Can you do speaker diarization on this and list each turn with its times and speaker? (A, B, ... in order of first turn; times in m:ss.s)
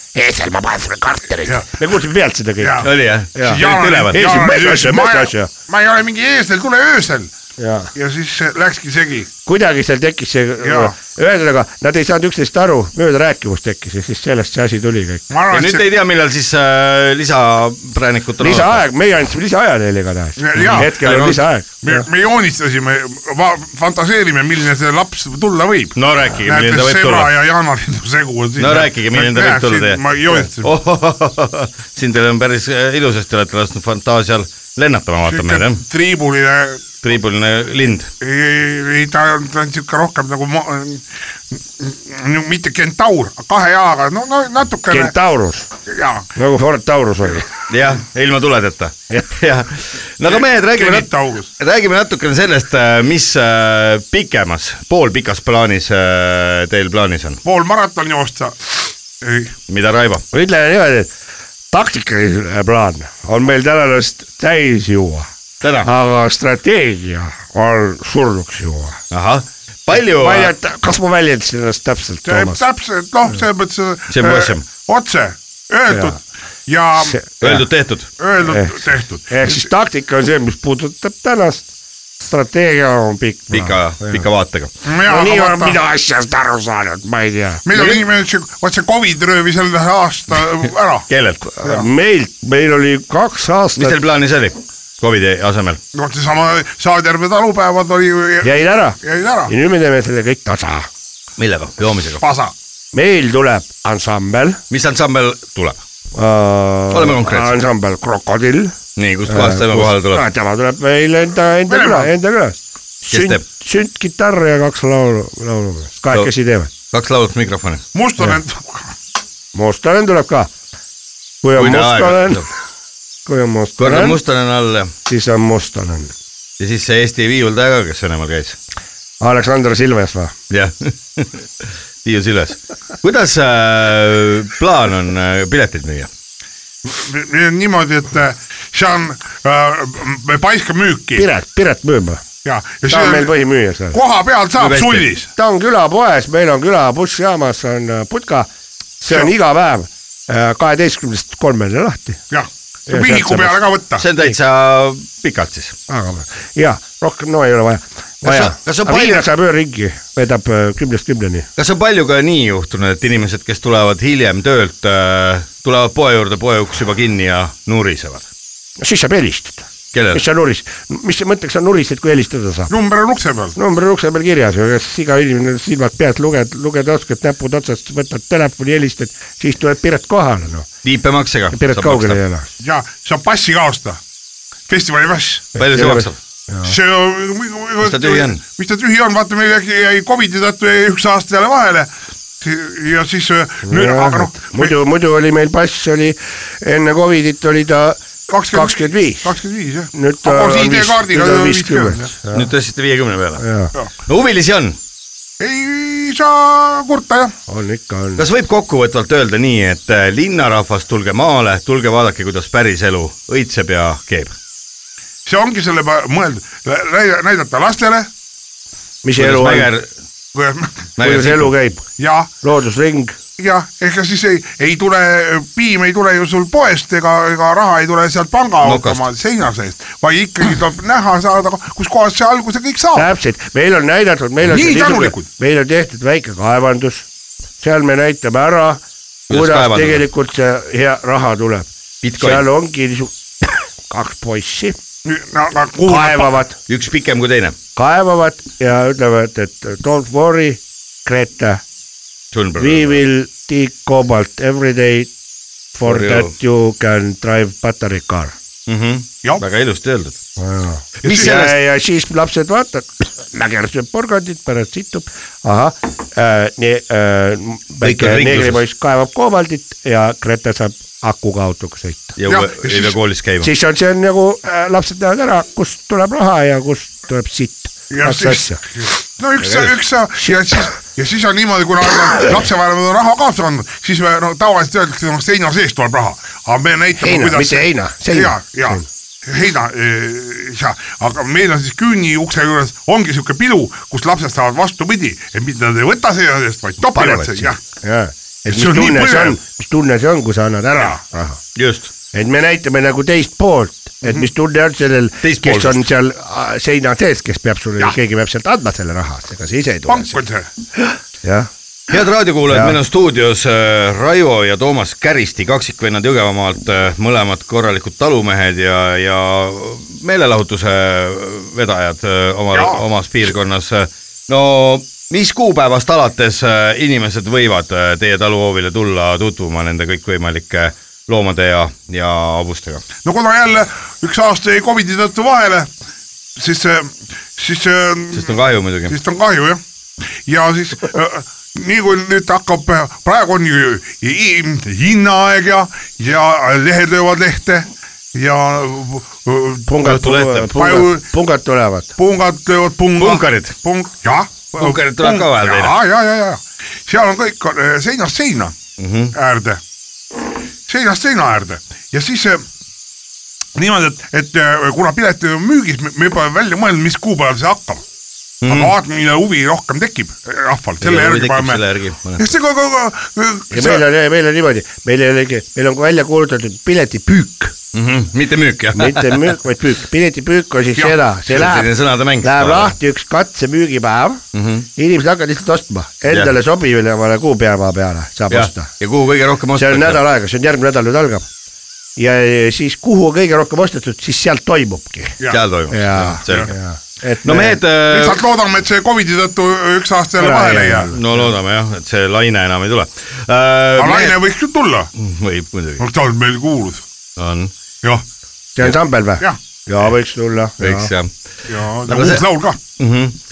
0:00.1-0:05.5 A
0:02.6-0:07.3 B
0:02.8-0:04.2 C
0:07.6-0:07.9 A
0:07.9-0:09.3 B
0:09.4-0:15.2 A
0:10.6-0:10.9 B
0:15.3-0:15.9 B
0:15.5-0:18.8 C
0:18.4-0:22.0 A
0:20.4-0:30.7 B
0:26.0-0:27.3 C
0:28.6-0:30.0 C
0:30.5-0:35.8 C
0:35.2-0:37.0 B
0:37.0-0:38.1 C
0:38.2-0:45.1 B
0:44.9-0:45.7 A
0:45.9-0:46.3 B
0:46.4-0:47.5 A
0:47.7-0:57.4 C
0:50.2-0:51.5 B
0:57.4-0:58.6 B
0:59.2-0:59.5 B
0:59.7-1:00.2 C
1:00.3-1:01.1 A
1:01.7-1:05.3 A
1:05.6-1:05.9 C
1:05.8-1:09.0 A
1:09.1-1:10.5 C
1:09.9-1:12.6 A
1:12.2-1:17.2 B
1:14.1-1:14.6 C
1:15.9-1:16.2 A
1:17.0-1:17.6 A
1:17.4-1:18.1 C
1:18.2-1:19.7 B
1:18.4-1:21.7 A
1:22.2-1:24.2 A
1:23.5-1:24.7 C
1:24.8-1:25.8 B
1:25.1-1:27.6 A
1:27.6-1:31.1 B
1:31.1-1:31.4 C
1:31.6-1:34.0 A
1:33.8-1:35.8 C
1:35.9-1:39.5 B
1:38.4-1:39.0 A
1:39.5-1:40.9 A
1:41.4-1:42.2 C
1:42.2-1:42.5 B
1:42.9-1:44.6 A
1:44.7-1:45.8 C
1:46.1-1:48.7 A
1:46.9-1:47.6 C
1:49.0-1:50.2 C
1:49.3-1:56.7 A
1:51.7-1:52.1 B
1:53.1-1:53.4 C
1:56.9-1:57.8 C
1:57.9-1:58.9 B
1:59.5-2:00.5 A
2:01.4-2:02.4 A
2:01.5-2:02.4 C
2:03.2-2:04.2 A
2:03.8-2:04.9 C
2:05.1-2:06.1 A
2:06.6-2:08.6 C
2:09.2-2:10.3 A
2:10.5-2:11.4 C
2:12.0-2:16.1 C
2:16.8-2:21.3 B
2:21.2-2:22.2 A
2:22.4-2:23.3 B
2:22.9-2:24.0 A
2:23.9-2:25.3 B
2:24.6-2:25.1 C
2:25.4-2:28.5 A
2:29.0-2:32.2 A
2:32.3-2:34.0 B
2:32.9-2:33.6 A
2:34.0-2:35.7 C
2:35.9-2:41.5 A
2:38.2-2:39.3 C
2:41.6-2:48.2 C
2:48.8-2:52.7 A
2:49.9-2:50.2 C
2:52.7-2:53.6 B
2:53.6-3:00.7 A
3:00.8-3:02.2 C
3:01.5-3:02.5 A
3:02.6-3:04.0 B
3:04.7-3:05.5 B
3:05.6-3:06.2 C
3:05.6-3:06.7 A
3:06.6-3:11.9 B
3:07.8-3:08.4 C
3:12.4-3:14.7 B
3:13.6-3:18.0 A
3:18.3-3:22.1 B
3:18.5-3:19.3 A
3:19.9-3:22.5 A
3:22.3-3:23.4 C
3:23.4-3:23.7 A
3:24.1-3:24.8 C
3:25.4-3:27.3 B
3:27.5-3:28.2 A
3:28.2-3:34.3 C
3:35.2-3:38.1 B
3:39.0-3:39.7 A
3:39.2-3:39.9 C
3:40.3-3:40.8 B
3:41.0-3:41.5 C
3:41.0-3:41.8 A
3:42.0-3:42.3 B
3:42.4-3:43.2 A
3:43.4-3:53.1 B
3:48.6-3:49.0 C
3:53.0-3:57.1 A
3:54.4-3:55.3 B
3:57.6-4:04.8 A
3:59.3-4:00.0 C
4:02.0-4:02.4 C
4:05.0-4:06.4 B
4:05.8-4:06.6 A
4:06.7-4:07.6 C
4:07.8-4:11.6 A
4:12.3-4:13.0 C
4:12.6-4:15.1 A
4:15.7-4:18.3 A
4:15.8-4:16.3 C
4:18.7-4:20.2 C
4:20.4-4:32.2 A
4:21.0-4:21.6 C
4:21.0-4:21.4 B
4:27.8-4:28.6 C
4:32.2-4:33.5 C
4:32.3-4:33.0 B
4:33.4-4:38.6 A
4:37.9-4:57.6 B
4:47.0-4:48.8 A
4:56.9-4:57.4 C
4:57.7-5:01.4 A
4:58.5-4:59.4 B
5:01.6-5:01.9 C
5:02.1-5:10.2 A
5:05.2-5:05.9 C
5:09.9-5:10.5 B
5:11.2-5:11.5 A
5:11.9-5:32.8 C
5:12.5-5:12.8 A
5:22.5-5:22.8 B
5:33.0-5:35.7 B
5:36.4-5:38.3 B
5:38.1-5:39.0 C
5:38.9-5:39.6 B
5:40.3-5:51.0 B
5:49.7-5:51.9 A
5:49.8-5:50.5 C
5:52.0-5:58.6 B
5:53.0-5:53.6 C
5:54.6-5:55.7 C
5:58.8-5:59.1 C
5:59.1-5:59.6 B
6:00.7-6:02.4 B
6:03.6-6:07.8 B
6:08.4-6:08.7 C
6:08.4-6:11.6 B
6:10.8-6:12.2 C
6:12.2-6:13.8 B
6:13.5-6:17.5 A
6:17.7-6:19.3 C
6:18.7-6:21.7 A
6:21.3-6:22.7 C
6:22.2-6:24.2 A
6:24.3-6:24.7 C
6:24.8-6:28.7 A
6:26.1-6:26.3 C
6:28.3-6:30.0 C
6:29.5-6:31.3 A
6:32.0-6:35.2 A
6:35.3-6:36.5 C
6:35.7-6:37.6 A
6:36.2-6:36.5 B
6:37.2-6:38.2 C
6:37.9-6:41.0 B
6:40.2-6:40.9 A
6:40.9-6:44.2 C
6:43.8-6:44.9 B
6:45.0-6:45.8 C
6:45.8-6:46.8 B
6:47.2-6:47.5 C
6:48.6-6:50.9 A
6:50.6-6:51.1 C
6:51.5-6:52.6 B
6:51.8-6:52.2 C
6:52.8-6:53.2 C